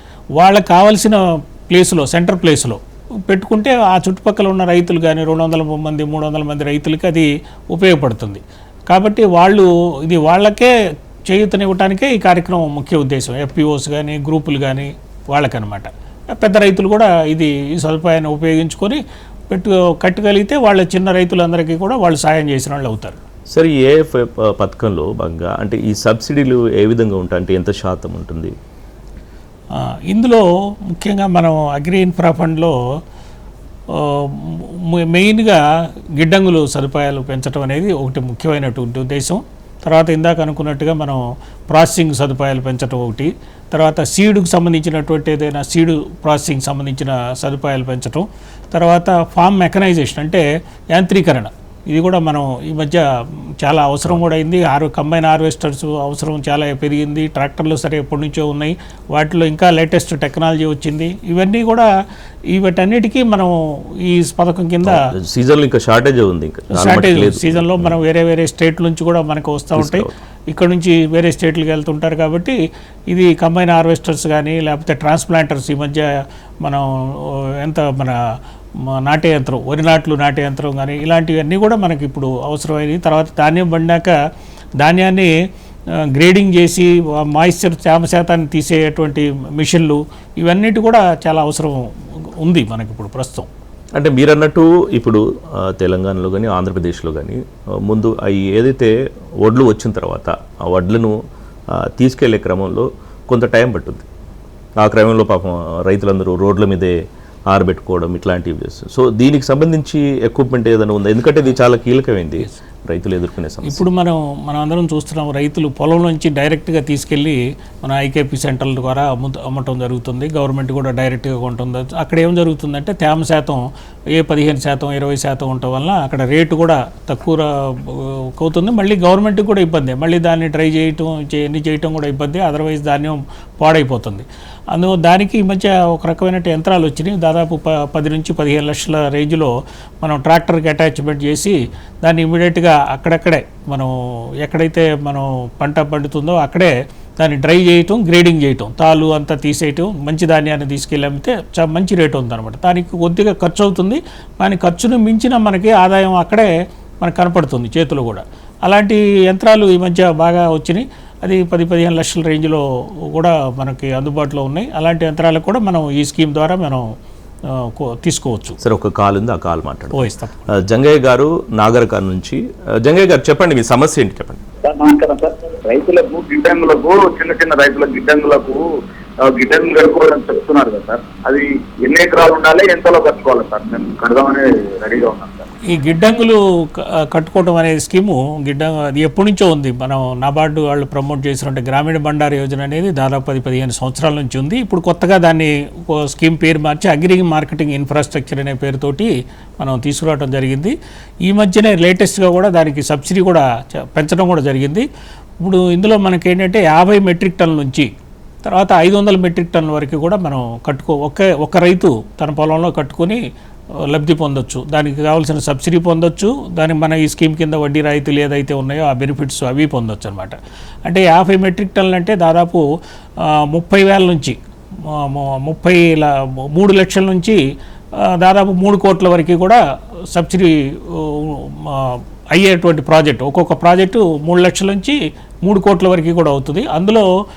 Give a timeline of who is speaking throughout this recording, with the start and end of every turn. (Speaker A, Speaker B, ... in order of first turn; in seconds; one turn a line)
Speaker A: 0.4-10.7
Speaker A: 11.3-23.2
Speaker B: 23.5-28.5
Speaker A: 29.8-32.8
Speaker A: 33.9-35.6
Speaker A: 36.2-53.1
Speaker A: 53.6-61.9
Speaker A: 62.5-65.0
Speaker B: 64.8-68.0
Speaker A: 66.7-72.6
Speaker B: 69.8-70.1
Speaker A: 73.1-78.2
Speaker A: 78.9-84.2
Speaker A: 84.8-85.3
Speaker A: 86.0-91.9
Speaker A: 92.4-93.5
Speaker B: 94.0-101.2
Speaker B: 101.7-104.1
Speaker B: 104.8-113.9
Speaker A: 113.6-123.6
Speaker A: 124.2-156.5
Speaker A: 157.0-166.9
Speaker A: 167.5-168.6
Speaker B: 168.6-174.4
Speaker A: 169.9-170.3
Speaker C: 174.6-178.6
Speaker C: 179.2-185.5
Speaker A: 185.7-200.8
Speaker A: 201.3-204.9
Speaker A: 205.4-207.9
Speaker A: 208.4-213.2
Speaker A: 213.9-222.6
Speaker A: 223.2-227.4
Speaker A: 228.0-229.6
Speaker A: 230.1-237.1